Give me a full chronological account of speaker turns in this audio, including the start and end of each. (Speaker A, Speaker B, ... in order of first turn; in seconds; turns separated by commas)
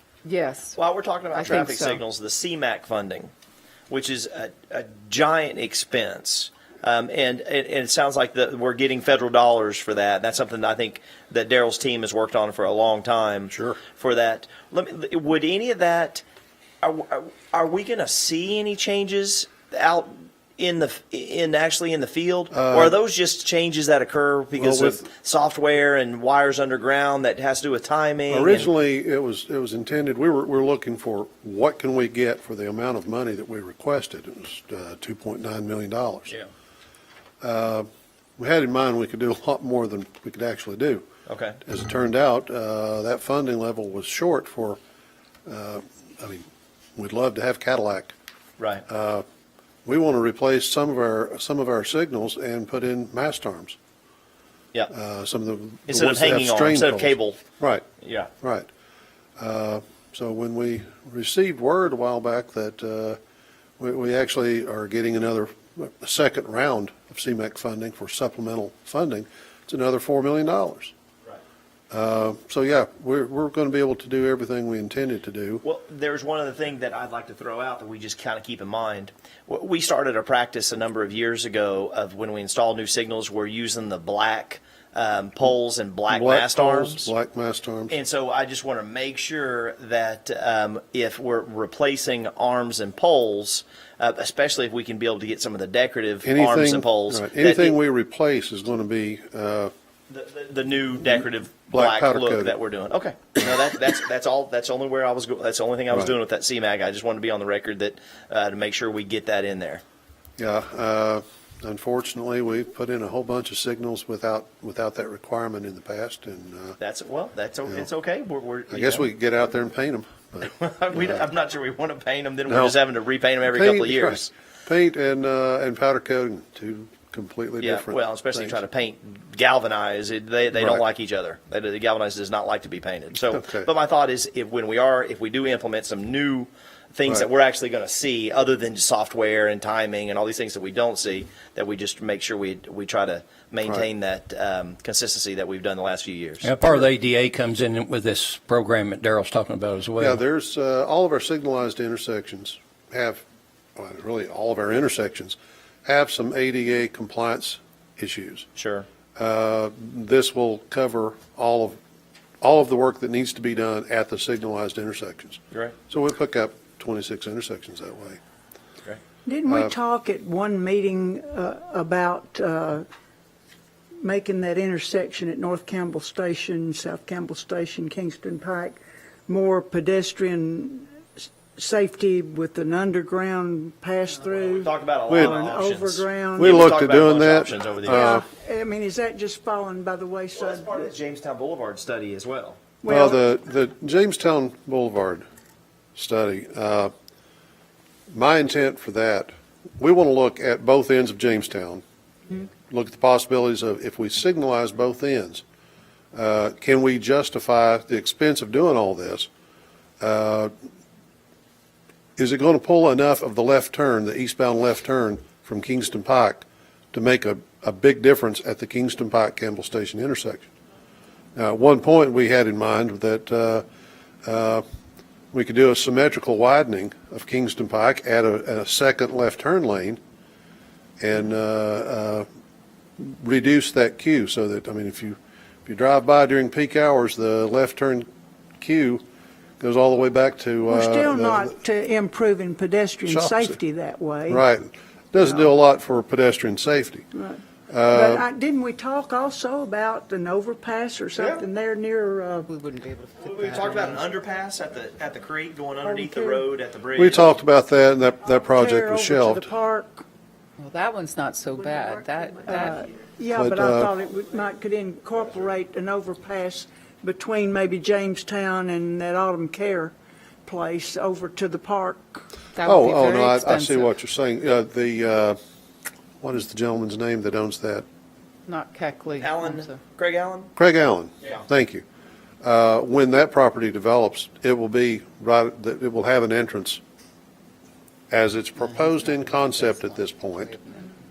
Speaker A: 0.2-0.8, Speaker B: 0.8-3.3, Speaker A: 1.3-2.0, Speaker B: 3.9-16.2, Speaker C: 13.5-13.8, Speaker B: 16.8-28.7, Speaker C: 22.5-23.0, Speaker C: 24.6-25.1, Speaker C: 28.3-36.4, Speaker C: 37.4-37.9, Speaker C: 38.4-41.1, Speaker B: 41.3-41.6, Speaker C: 41.6-44.8, Speaker C: 45.5-46.5, Speaker C: 47.0-48.1, Speaker B: 48.6-48.9, Speaker C: 48.9-49.2, Speaker C: 49.9-53.8, Speaker C: 54.9-57.8, Speaker B: 55.9-57.4, Speaker B: 58.0-58.3, Speaker C: 58.4-58.7, Speaker C: 59.4-63.2, Speaker C: 63.8-70.9, Speaker C: 71.9-75.6, Speaker B: 75.6-87.1, Speaker C: 86.1-88.0, Speaker B: 87.9-97.8, Speaker C: 96.2-99.7, Speaker B: 100.1-109.8, Speaker C: 101.7-102.5, Speaker C: 110.4-116.8, Speaker B: 116.8-119.1, Speaker C: 118.7-121.2, Speaker B: 120.4-124.3, Speaker C: 122.5-122.8, Speaker C: 123.5-128.6, Speaker B: 127.6-146.5, Speaker C: 130.6-130.8, Speaker C: 133.3-133.7, Speaker D: 146.4-150.2, Speaker C: 150.0-153.2, Speaker C: 153.8-158.5, Speaker B: 158.6-158.9, Speaker C: 159.2-161.8, Speaker C: 162.4-168.2, Speaker E: 169.3-172.8, Speaker E: 174.0-181.0, Speaker E: 181.6-186.6, Speaker B: 184.3-188.2, Speaker C: 185.1-185.4, Speaker C: 186.4-188.2, Speaker E: 187.9-190.9, Speaker B: 190.3-192.6, Speaker E: 192.8-193.2, Speaker C: 192.9-195.2, Speaker C: 196.0-196.9, Speaker C: 198.1-201.8, Speaker C: 202.4-205.4, Speaker C: 206.1-209.3, Speaker C: 210.0-210.5, Speaker C: 212.2-220.5, Speaker C: 221.4-223.6, Speaker C: 224.2-224.6, Speaker C: 225.3-230.0, Speaker C: 231.0-232.3, Speaker C: 233.0-238.1, Speaker C: 238.6-239.0, Speaker C: 239.6-241.5, Speaker E: 240.7-244.4, Speaker C: 243.1-243.6, Speaker C: 244.3-247.1, Speaker E: 245.2-245.5, Speaker E: 247.2-252.5, Speaker C: 247.7-248.3, Speaker B: 251.2-251.4, Speaker A: 252.5-254.0, Speaker B: 253.2-257.4, Speaker E: 255.8-256.4, Speaker C: 256.9-259.5, Speaker E: 258.5-260.1, Speaker A: 260.6-262.9, Speaker E: 261.6-269.9, Speaker C: 263.3-263.9, Speaker E: 270.5-272.2, Speaker A: 272.5-273.9, Speaker C: 272.6-275.4, Speaker C: 276.2-277.9, Speaker A: 278.5-279.8, Speaker B: 279.2-280.5, Speaker C: 280.6-281.8, Speaker C: 282.4-286.8, Speaker C: 288.1-290.6, Speaker A: 288.7-290.9